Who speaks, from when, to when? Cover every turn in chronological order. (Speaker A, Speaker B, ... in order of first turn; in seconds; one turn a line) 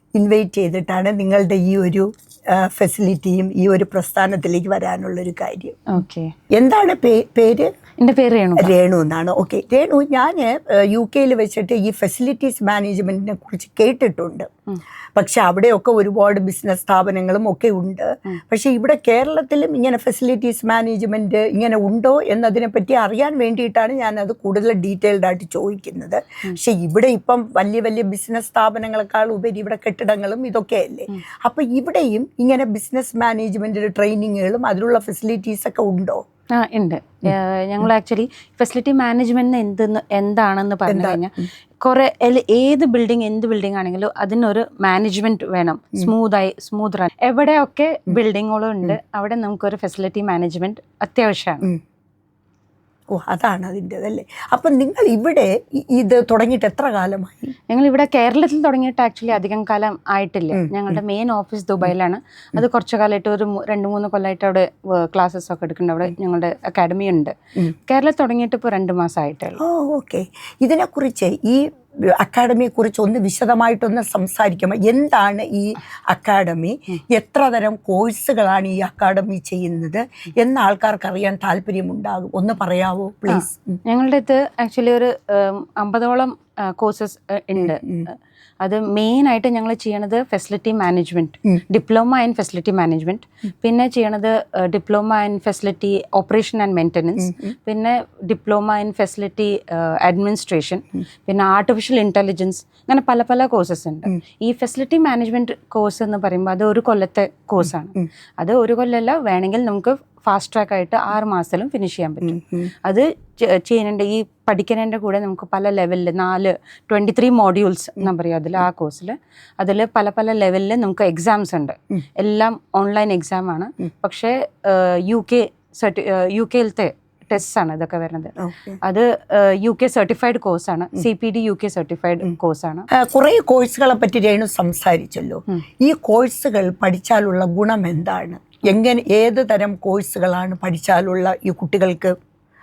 Speaker A: 0.1-5.8
Speaker B: 5.9-6.3
Speaker A: 6.5-7.7
Speaker B: 8.0-8.7
Speaker A: 8.6-14.5
Speaker A: 15.2-36.2
Speaker B: 36.5-51.7
Speaker A: 40.9-41.5
Speaker A: 53.1-57.5
Speaker B: 57.7-67.3
Speaker A: 60.5-61.0
Speaker B: 67.9-69.6
Speaker A: 69.6-71.7
Speaker A: 72.2-83.8
Speaker B: 83.3-132.9
Speaker A: 87.6-88.1
Speaker A: 97.2-97.5
Speaker A: 112.2-112.7
Speaker A: 128.4-128.8
Speaker A: 132.9-142.1